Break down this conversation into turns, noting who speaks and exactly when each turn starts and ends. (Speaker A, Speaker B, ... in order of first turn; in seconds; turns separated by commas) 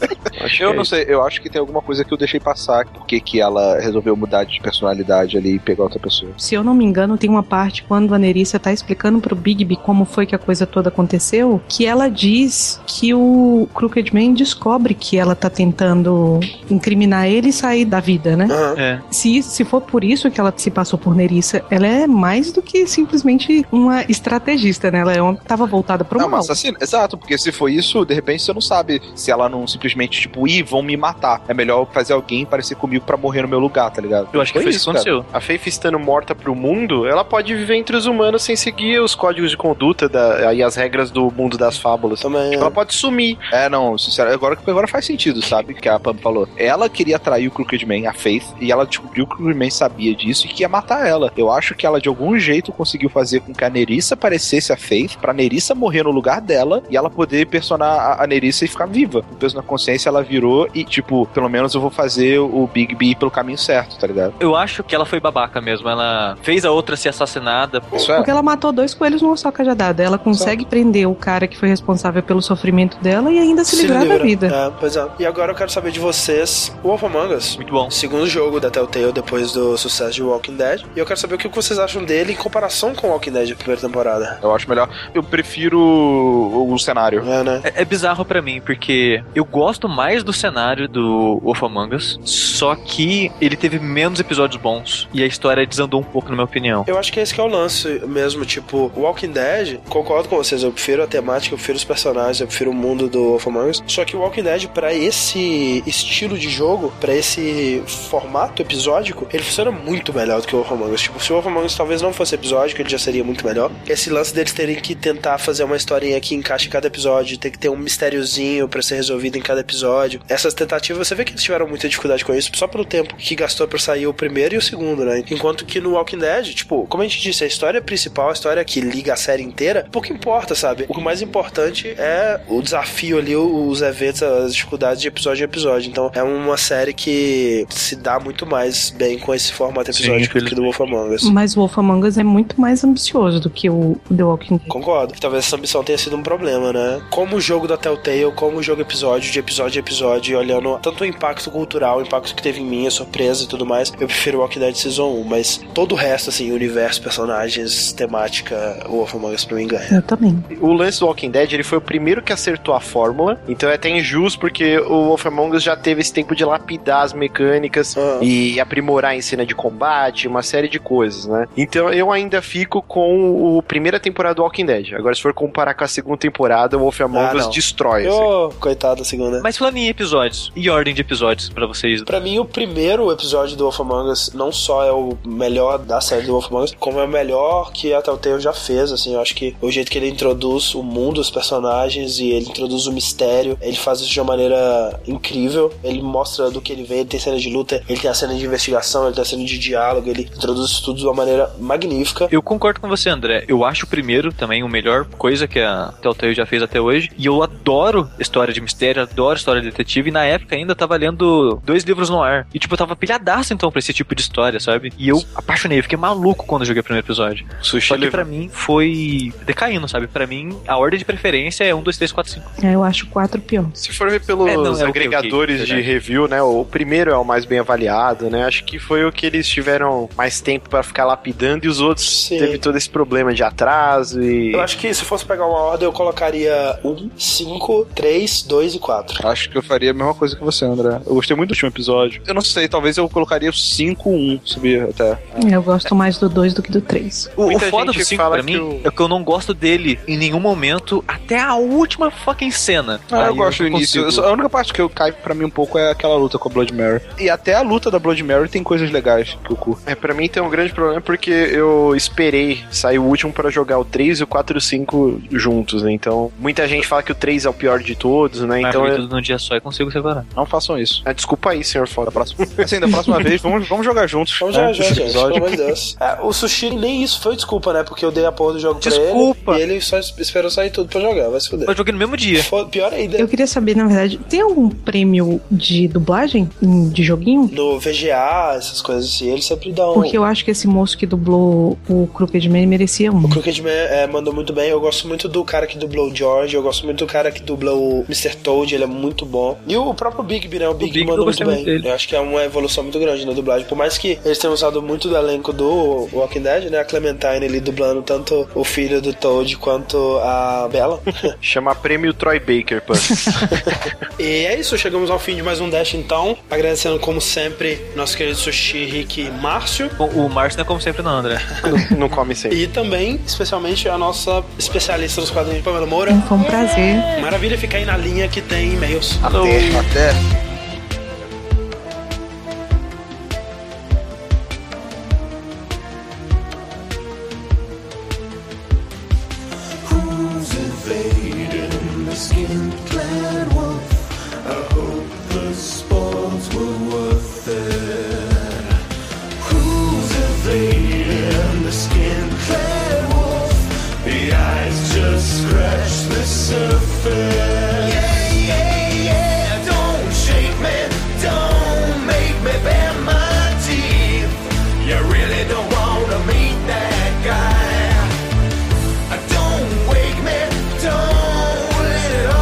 Speaker A: 0.3-0.9, Speaker B: 0.6-6.4, Speaker C: 6.4-18.6, Speaker D: 18.5-18.8, Speaker E: 18.8-19.0, Speaker C: 19.1-26.6, Speaker B: 26.2-35.1, Speaker E: 34.3-35.2, Speaker A: 35.3-43.4, Speaker D: 42.2-42.7, Speaker B: 43.5-64.3, Speaker E: 64.4-67.9, Speaker B: 67.9-68.3, Speaker C: 68.0-74.5, Speaker B: 70.3-70.6, Speaker D: 73.7-84.4, Speaker E: 77.6-77.9, Speaker B: 84.4-87.3, Speaker D: 87.2-87.6, Speaker E: 87.6-96.9, Speaker D: 96.8-141.3, Speaker E: 139.9-140.6, Speaker C: 141.2-144.7, Speaker D: 144.7-160.0, Speaker C: 159.9-160.5, Speaker A: 160.5-178.3, Speaker D: 167.9-168.3, Speaker D: 177.1-179.4, Speaker E: 179.4-182.1, Speaker D: 182.1-202.3, Speaker E: 202.3-222.5, Speaker A: 217.6-218.3, Speaker C: 222.6-223.7, Speaker A: 223.8-234.7, Speaker E: 224.4-225.8, Speaker D: 232.0-232.6, Speaker D: 234.5-239.2, Speaker B: 239.2-245.2, Speaker C: 245.4-247.3, Speaker E: 247.4-254.3, Speaker A: 247.4-248.8, Speaker B: 253.1-259.8, Speaker A: 259.9-269.0, Speaker E: 268.6-270.3, Speaker B: 270.3-271.0, Speaker A: 271.0-273.2, Speaker B: 272.1-275.6, Speaker D: 274.4-281.7, Speaker E: 278.8-279.6, Speaker E: 281.7-282.5, Speaker D: 282.3-283.3, Speaker C: 283.2-287.5, Speaker D: 287.5-290.2, Speaker C: 289.9-293.4, Speaker D: 293.2-311.3, Speaker E: 300.8-301.9, Speaker A: 311.4-313.2, Speaker D: 314.2-319.9, Speaker E: 320.0-321.4, Speaker A: 321.6-322.6, Speaker D: 322.5-326.2, Speaker C: 326.1-327.0, Speaker D: 327.2-329.2, Speaker E: 329.2-329.7, Speaker A: 329.2-329.7, Speaker B: 329.7-330.2